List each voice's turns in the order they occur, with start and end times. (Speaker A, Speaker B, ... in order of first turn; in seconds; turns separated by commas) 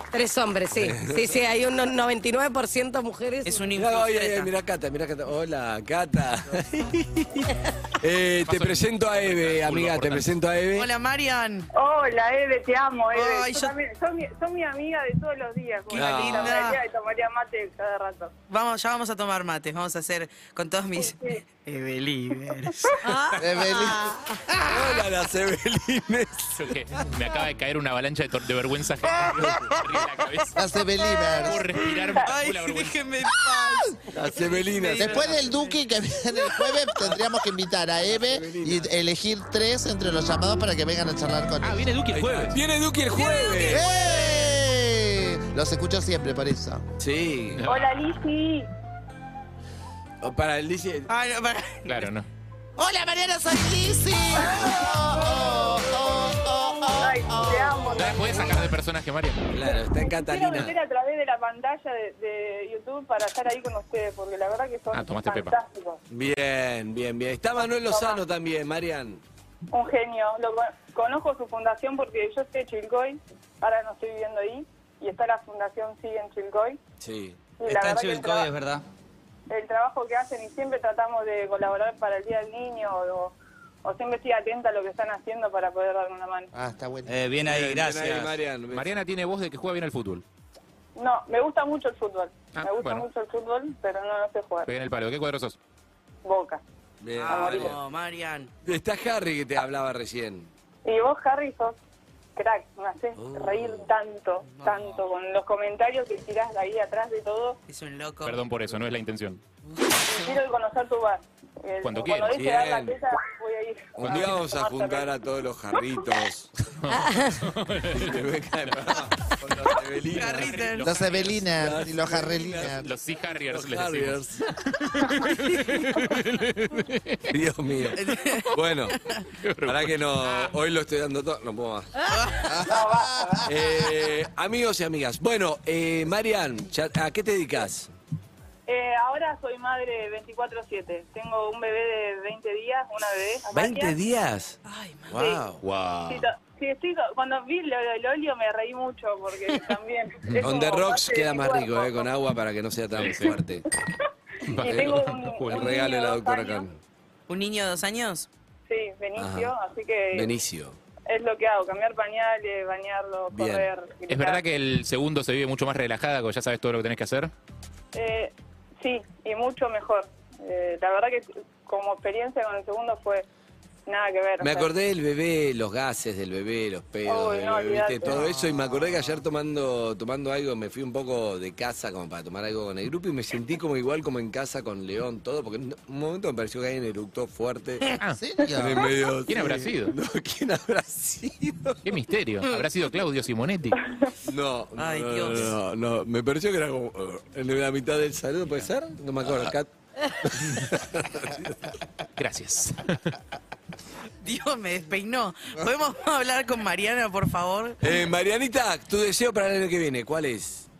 Speaker A: 0.1-3.6, Speaker B: 0.7-1.3, Speaker C: 3.4-4.5, Speaker B: 3.8-10.9, Speaker D: 8.4-10.4, Speaker C: 10.7-11.7, Speaker E: 11.7-18.3, Speaker C: 13.1-13.7, Speaker C: 15.9-16.8, Speaker B: 15.9-16.6, Speaker C: 18.5-24.1, Speaker E: 21.0-21.4, Speaker F: 23.4-25.0, Speaker B: 24.6-26.8, Speaker D: 26.5-30.6, Speaker F: 30.6-31.6, Speaker C: 31.3-35.7, Speaker D: 31.4-33.0, Speaker B: 34.1-35.4, Speaker F: 35.0-41.9, Speaker B: 38.0-38.9, Speaker D: 41.6-42.6, Speaker B: 42.1-43.9, Speaker C: 43.1-44.4, Speaker F: 43.6-46.8, Speaker B: 47.0-47.6, Speaker D: 47.6-47.9, Speaker E: 47.6-48.7, Speaker B: 50.2-51.1, Speaker C: 51.1-52.1, Speaker D: 51.9-52.3, Speaker F: 52.8-58.5, Speaker E: 56.9-58.7, Speaker D: 57.9-59.5, Speaker B: 59.5-60.7, Speaker E: 59.6-66.0, Speaker D: 64.9-65.5, Speaker B: 66.1-69.2, Speaker E: 67.7-68.2, Speaker E: 69.7-76.8, Speaker B: 77.0-77.4, Speaker E: 77.6-78.5, Speaker G: 77.6-78.8, Speaker E: 79.5-86.5, Speaker F: 86.5-87.2, Speaker G: 87.1-88.3, Speaker B: 87.5-89.0, Speaker D: 88.7-90.2, Speaker E: 91.0-94.7, Speaker D: 92.5-93.0, Speaker D: 94.7-95.6, Speaker E: 96.2-96.6, Speaker B: 97.0-97.8, Speaker C: 97.2-98.5, Speaker E: 97.3-97.7, Speaker B: 98.6-100.5, Speaker E: 100.8-101.8, Speaker E: 102.3-107.6, Speaker B: 103.2-103.9, Speaker C: 104.5-105.0, Speaker C: 107.7-108.4, Speaker D: 108.2-109.4, Speaker C: 109.7-110.3, Speaker E: 110.0-115.1, Speaker D: 111.8-112.4, Speaker B: 112.3-113.0, Speaker B: 114.0-116.5, Speaker D: 116.8-118.2, Speaker A: 116.9-117.4, Speaker B: 117.9-120.8, Speaker C: 120.1-120.9, Speaker D: 120.3-121.5, Speaker F: 120.8-122.9, Speaker B: 121.5-124.4, Speaker D: 122.7-127.3, Speaker B: 127.3-129.0, Speaker C: 128.0-128.5, Speaker D: 129.3-130.0, Speaker B: 129.7-132.0, Speaker C: 132.1-132.6, Speaker F: 132.5-133.8, Speaker E: 132.7-133.5, Speaker B: 133.4-137.9, Speaker E: 138.7-143.9, Speaker B: 143.5-144.6, Speaker C: 144.7-145.2, Speaker B: 145.1-145.6, Speaker D: 145.6-146.2, Speaker E: 146.0-152.1, Speaker B: 150.4-153.6, Speaker D: 152.9-153.3, Speaker D: 154.5-155.7, Speaker E: 154.6-156.7, Speaker B: 154.6-156.8, Speaker C: 157.3-158.3, Speaker E: 158.7-160.3, Speaker B: 159.2-159.5, Speaker B: 160.1-160.8, Speaker E: 161.1-164.4, Speaker B: 163.3-163.7, Speaker D: 164.1-167.3, Speaker E: 167.9-173.2, Speaker E: 173.9-174.7, Speaker B: 174.4-188.0, Speaker E: 177.0-178.2, Speaker F: 178.1-179.2, Speaker F: 188.1-188.9, Speaker B: 188.5-191.8, Speaker D: 189.2-189.9, Speaker D: 191.8-193.8, Speaker B: 194.2-201.7, Speaker C: 194.8-195.5, Speaker D: 202.2-203.0, Speaker C: 204.2-208.0, Speaker B: 207.8-210.7